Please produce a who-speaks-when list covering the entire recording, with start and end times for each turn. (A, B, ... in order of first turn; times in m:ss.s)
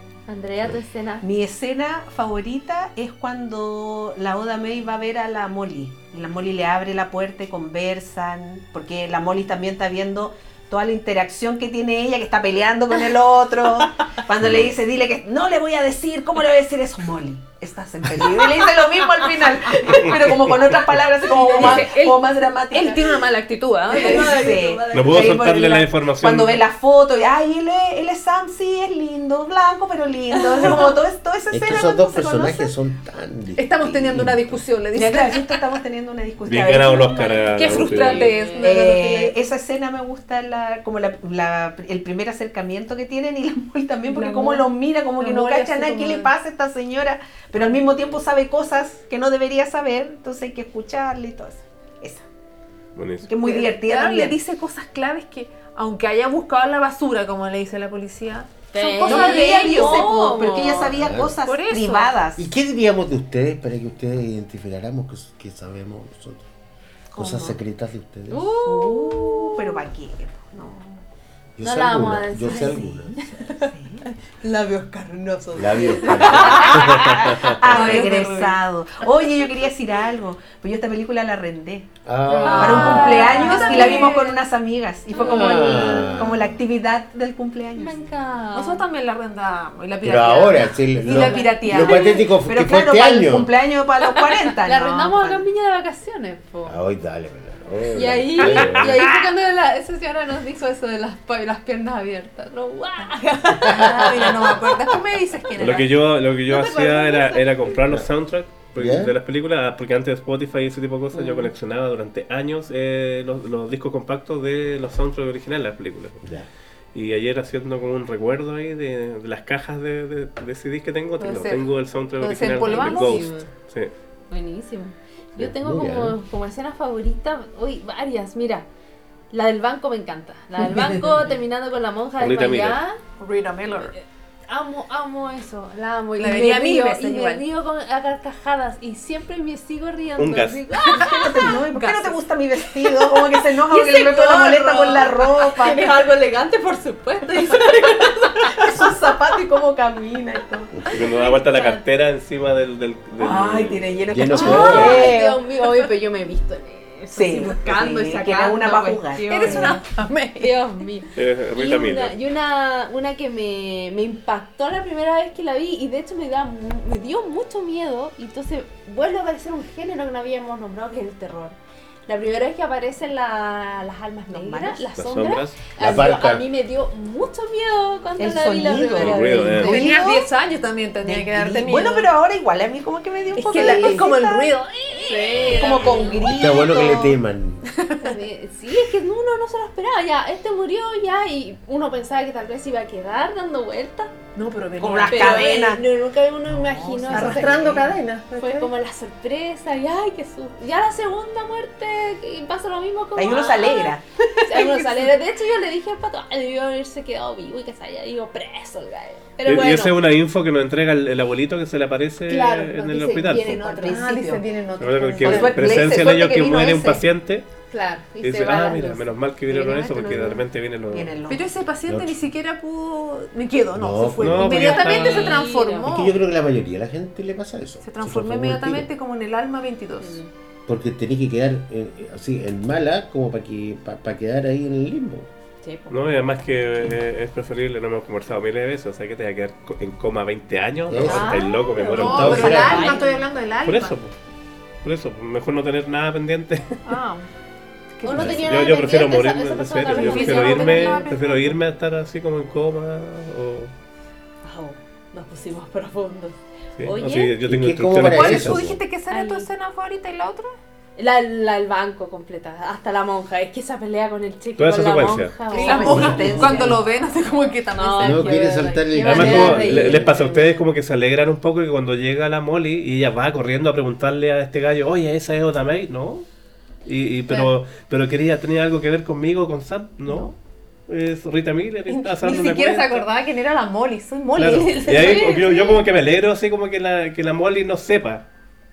0:00.3-0:01.3 A
0:01.2-0:23.2 B
0:21.2-0:24.5 C
0:23.9-0:25.5 A
0:23.9-0:32.7 B
0:24.9-0:26.6 D
0:31.5-0:34.6 E
0:33.6-0:35.7 C
0:34.9-0:52.2 B
0:36.5-0:38.3 D
0:37.5-0:39.4 C
0:38.0-0:38.9 A
0:44.1-0:44.7 C
0:45.2-0:46.3 C
0:53.0-0:53.3 D
0:53.2-0:54.4 B
0:53.4-1:00.4 C
0:58.7-1:00.9 A
0:59.0-1:02.4 B
1:00.9-1:01.4 E
1:01.4-1:02.1 C
1:02.4-1:06.4 E
1:07.1-1:07.6 B
1:07.2-1:08.5 E
1:08.3-1:09.6 A
1:08.6-1:11.0 B
1:11.6-1:13.1 E
1:11.6-1:13.6 A
1:12.4-1:14.0 B
1:14.4-1:18.5 A
1:15.5-1:17.2 E
1:16.1-1:21.9 B
1:16.6-1:16.8 C
1:17.6-1:18.5 C
1:22.0-1:23.3 E
1:22.2-1:24.3 A
1:22.4-1:24.4 C
1:22.5-1:27.9 B
1:25.1-1:26.6 E
1:25.2-1:26.1 A
1:27.7-1:28.8 A
1:28.5-1:32.2 C
1:30.0-1:33.5 E
1:31.1-1:32.2 A
1:31.7-1:35.4 B
1:34.5-1:36.8 A
1:36.6-1:39.1 E
1:37.9-1:45.0 A
1:38.4-1:38.9 D
1:43.1-1:45.9 C
1:43.6-1:44.4 E
1:45.6-1:56.2 D
1:46.5-1:47.4 A
1:48.8-1:49.1 E
1:51.1-1:51.5 A
1:56.2-1:56.5 E
1:56.9-2:03.9 D
2:01.2-2:03.4 C
2:02.4-2:03.5 A
2:04.3-2:08.6 A
2:05.4-2:06.2 E
2:09.3-2:13.0 A
2:12.2-2:12.8 D
2:13.2-2:13.9 C
2:13.8-2:21.6 A
2:16.2-2:17.4 C
2:20.2-2:20.8 D
2:20.9-2:22.2 C
2:21.0-2:26.0 B
2:22.9-2:23.2 C
2:23.7-2:29.3 A
2:27.4-2:30.7 B
2:30.9-2:33.9 D
2:31.2-2:31.8 A
2:33.2-2:35.4 B
2:34.1-2:35.2 E
2:34.3-3:00.0 A
2:34.4-2:34.9 C
2:37.1-2:39.8 B
2:39.2-2:40.8 C
2:41.2-2:42.1 D
2:54.3-2:54.9 B
2:55.0-2:55.6 D
2:55.8-2:56.5 E
2:58.2-3:00.3 B
2:58.9-2:59.8 D
2:59.5-3:02.1 C
3:01.0-3:04.5 B
3:03.4-3:06.3 C
3:03.5-3:04.1 A
3:04.9-3:07.0 A
3:05.4-3:07.1 B
3:06.2-3:07.6 E
3:07.7-3:08.2 C
3:08.0-3:14.1 A
3:14.3-3:15.7 C
3:14.8-3:15.8 B
3:15.0-3:30.0 A
3:16.6-3:18.7 C
3:17.1-3:17.9 B
3:23.2-3:24.8 B
3:29.4-3:33.6 D
3:32.2-3:34.2 A
3:33.4-3:34.4 B
3:33.8-3:35.9 C
3:34.8-3:37.4 D
3:35.2-3:37.0 B
3:37.7-3:40.4 A
3:38.2-3:41.1 D
3:39.5-3:40.4 C
3:40.9-3:41.5 B
3:41.3-3:46.1 C
3:41.9-3:42.2 E
3:43.7-3:44.8 E
3:44.2-3:45.4 D
3:44.6-3:45.9 A
3:45.8-3:48.9 E
3:47.8-3:50.2 C
3:50.0-3:50.3 A
3:50.7-3:55.3 E
3:55.6-3:56.0 A
3:55.9-4:02.8 D
4:00.9-4:01.4 E
4:01.0-4:03.2 A
4:01.1-4:04.0 C
4:02.0-4:03.0 E
4:03.6-4:04.1 D
4:04.8-4:06.8 D
4:06.8-4:07.3 C
4:08.0-4:08.7 C
4:08.0-4:11.2 A
4:08.2-4:08.4 E
4:08.2-4:13.7 D
4:09.8-4:11.5 C
4:14.4-4:17.4 A
4:16.8-4:18.6 D
4:17.4-4:18.8 E
4:18.0-4:20.6 C
4:19.1-4:19.5 A
4:21.0-4:26.7 A
4:24.6-4:25.4 D
4:25.5-4:29.7 C
4:25.5-4:26.8 B
4:27.7-4:30.4 A
4:28.0-4:30.3 E
4:29.0-4:36.3 D
4:36.8-4:40.3 D
4:40.9-4:43.1 D
4:41.9-4:45.7 C
4:44.4-4:48.3 D
4:44.9-4:45.8 A